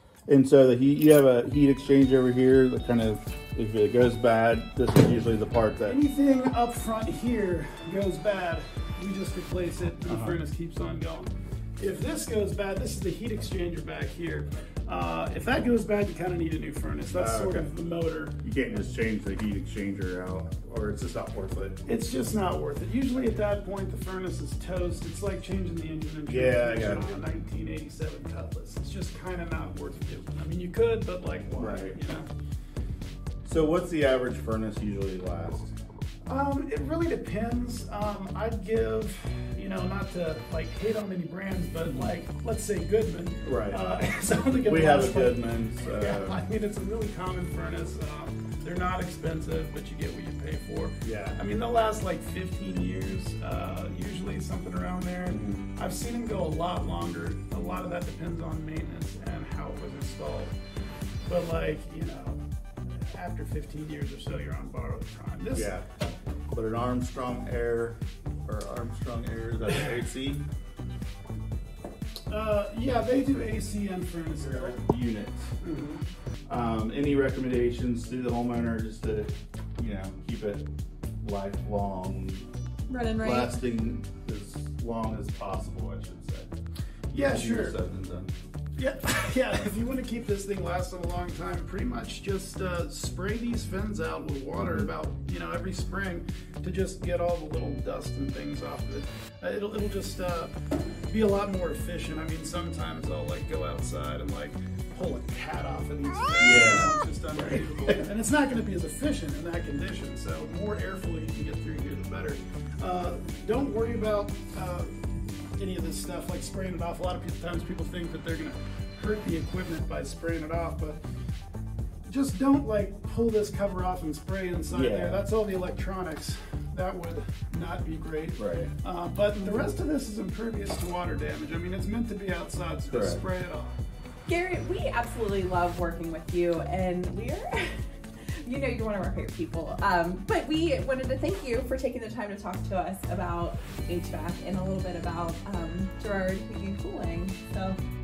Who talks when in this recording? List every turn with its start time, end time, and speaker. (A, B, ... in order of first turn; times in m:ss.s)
0:00.3-0:06.0 A
0:05.8-0:18.4 B
0:10.1-0:10.4 A
0:17.1-0:17.7 A
0:18.4-0:21.8 A
0:21.8-0:32.3 B
0:26.3-0:27.2 A
0:31.5-0:32.0 A
0:33.4-0:35.7 A
0:36.2-1:00.6 B
0:43.4-0:43.8 A
0:44.6-0:46.4 A
0:51.0-0:51.4 A
0:55.3-0:55.6 A
1:01.2-1:05.8 B
1:05.5-1:05.9 A
1:06.5-1:10.5 A
1:12.3-1:14.8 B
1:14.5-1:15.5 A
1:15.6-1:16.0 B
1:16.5-1:20.7 A
1:21.2-1:22.5 A
1:22.9-1:23.6 C
1:23.2-1:26.5 A
1:27.1-1:27.8 B
1:27.2-1:28.3 A
1:28.8-1:40.5 B
1:34.6-1:34.9 A
1:41.1-2:01.0 B
1:46.4-1:48.0 A
2:02.1-2:13.8 B
2:04.7-2:05.2 A
2:08.4-2:08.7 A
2:12.9-2:13.2 A
2:14.3-2:17.9 C
2:18.4-2:27.8 C